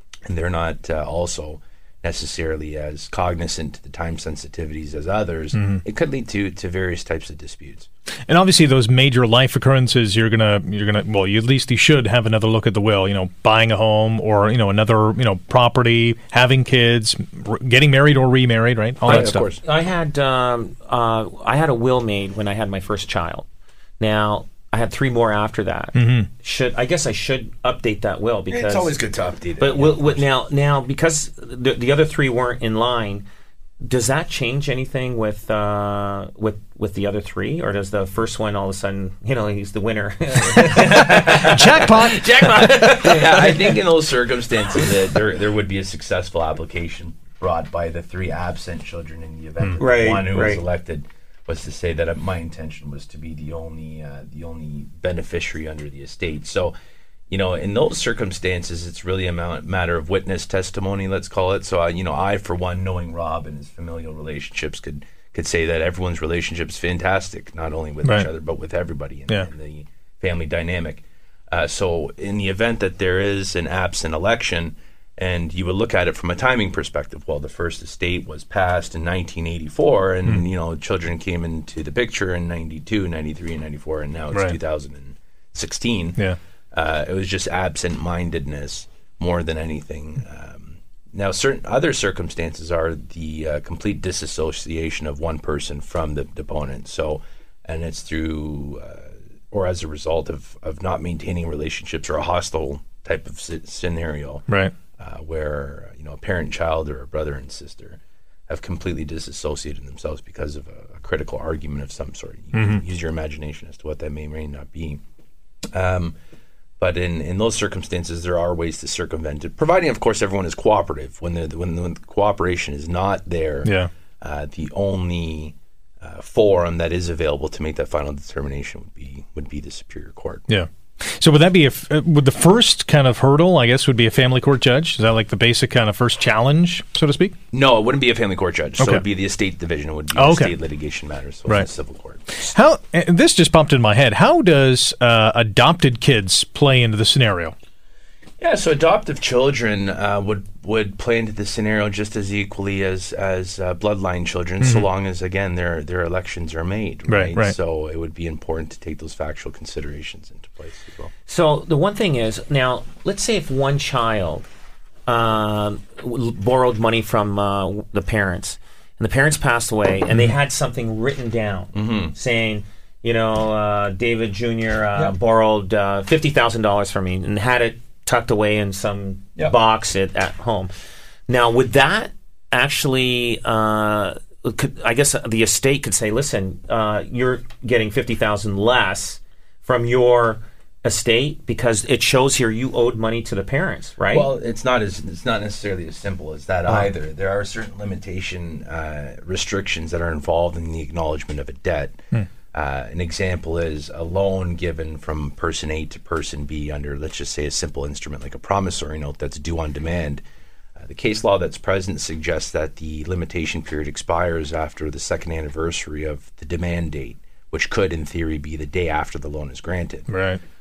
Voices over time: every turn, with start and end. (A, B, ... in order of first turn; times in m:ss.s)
0:00.2-0:07.9 A
0:05.5-0:05.8 B
0:08.3-0:19.4 B
0:19.0-0:19.6 A
0:19.1-0:23.4 C
0:24.0-0:28.9 C
0:25.9-0:26.3 B
0:28.5-0:30.2 A
0:29.6-0:33.2 C
0:33.8-0:43.7 C
0:40.8-0:56.7 A
0:40.8-0:43.0 B
0:49.8-0:50.6 C
0:57.3-1:44.4 A
1:45.0-1:55.0 A
1:52.5-1:52.8 B
1:55.7-1:56.2 A
1:56.8-2:10.4 A
2:03.6-2:03.9 B
2:10.5-2:17.4 B
2:17.5-2:22.3 A
2:20.2-2:20.5 B
2:22.4-2:27.5 B
2:28.4-2:41.1 A
2:34.6-2:34.9 B
2:37.1-2:37.5 B
2:41.3-2:44.4 C
2:45.1-3:00.7 C
2:51.7-2:52.1 A
3:01.3-3:14.3 C
3:14.1-3:22.0 A
3:22.5-3:30.2 A
3:30.8-3:40.1 A
3:40.1-3:40.4 B